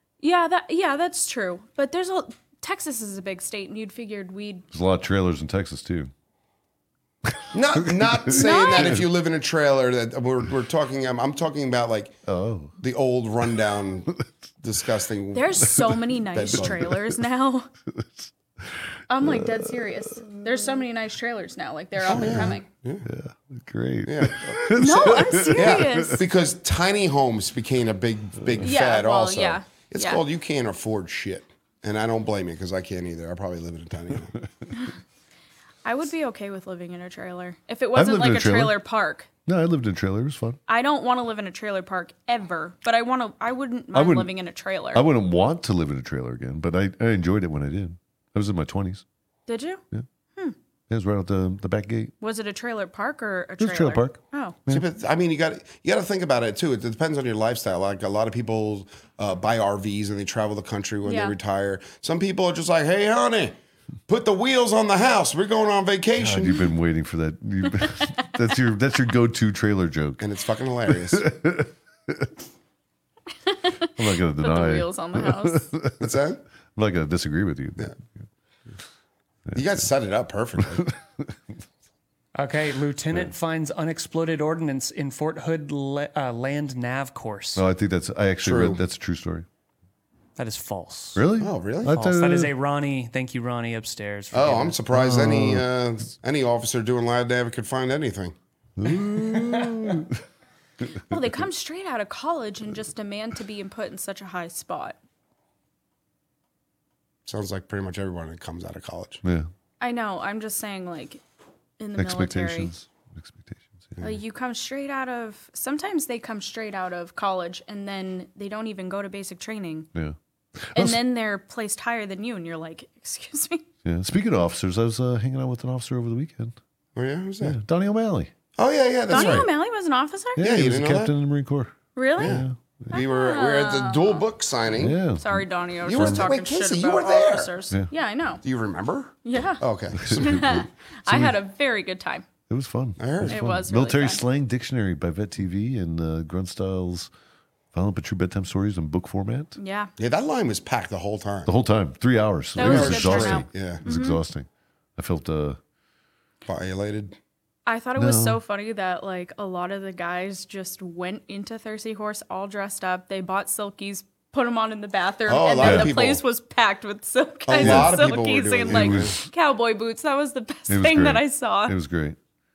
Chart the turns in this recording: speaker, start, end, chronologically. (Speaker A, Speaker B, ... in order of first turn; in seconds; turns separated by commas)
Speaker A: 0.2-4.7, Speaker B: 4.7-6.1, Speaker B: 7.3-9.1, Speaker C: 7.5-12.2, Speaker A: 8.3-9.0, Speaker B: 12.3-12.8, Speaker C: 12.8-15.8, Speaker A: 15.3-17.7, Speaker B: 15.7-16.0, Speaker C: 16.3-16.9, Speaker B: 16.5-17.2, Speaker B: 17.9-20.3, Speaker A: 19.1-22.6, Speaker B: 22.0-26.2, Speaker C: 22.1-23.1, Speaker C: 24.1-34.3, Speaker A: 24.7-26.2, Speaker B: 28.4-28.7, Speaker A: 28.6-30.2, Speaker A: 35.8-39.3, Speaker B: 37.9-38.8, Speaker B: 39.5-40.6, Speaker A: 40.7-45.1, Speaker B: 43.9-44.3, Speaker B: 44.9-49.0, Speaker A: 49.5-49.8, Speaker B: 50.9-52.1, Speaker A: 52.2-54.6, Speaker B: 53.6-54.9, Speaker C: 54.7-63.6, Speaker A: 61.0-61.4, Speaker C: 64.1-66.7, Speaker B: 66.2-70.3, Speaker C: 70.2-71.3, Speaker B: 70.9-72.3, Speaker A: 73.5-75.7, Speaker B: 74.0-76.2, Speaker C: 76.0-76.4, Speaker B: 76.8-78.2, Speaker B: 79.5-79.8, Speaker C: 79.5-80.9, Speaker B: 80.6-81.3, Speaker D: 82.3-87.6, Speaker B: 87.6-89.5, Speaker C: 88.4-88.8, Speaker D: 90.4-91.2, Speaker B: 91.2-92.5, Speaker C: 91.4-92.0, Speaker D: 91.9-94.8, Speaker C: 94.3-98.3, Speaker B: 94.9-95.7, Speaker B: 98.8-100.2, Speaker D: 99.2-99.7, Speaker A: 101.1-105.0, Speaker C: 107.3-109.2, Speaker B: 109.2-109.5, Speaker A: 109.8-111.2, Speaker A: 111.8-112.7, Speaker B: 112.0-114.0, Speaker A: 114.0-119.9, Speaker B: 119.9-121.0, Speaker A: 120.8-123.7, Speaker B: 123.8-126.6, Speaker C: 127.0-127.6, Speaker B: 127.4-128.3, Speaker C: 128.6-129.5, Speaker A: 129.1-130.4, Speaker B: 129.1-129.5, Speaker B: 130.4-133.0, Speaker C: 130.4-131.1, Speaker A: 131.9-134.2, Speaker C: 132.2-135.0, Speaker B: 134.7-136.3, Speaker A: 135.2-138.4, Speaker C: 135.8-137.5, Speaker C: 138.4-140.7, Speaker A: 139.2-142.3, Speaker B: 140.0-141.4, Speaker B: 142.5-147.1, Speaker C: 143.0-143.6, Speaker A: 143.3-144.2, Speaker B: 147.7-149.6, Speaker A: 149.6-149.9, Speaker C: 150.0-151.5, Speaker B: 151.5-155.6, Speaker A: 152.6-154.2, Speaker C: 152.6-153.8, Speaker C: 156.5-157.2, Speaker A: 157.7-171.8, Speaker B: 158.0-158.4, Speaker C: 165.3-166.2, Speaker B: 165.6-166.0, Speaker C: 167.5-169.2, Speaker B: 167.6-168.1, Speaker B: 168.7-169.3, Speaker B: 170.7-172.2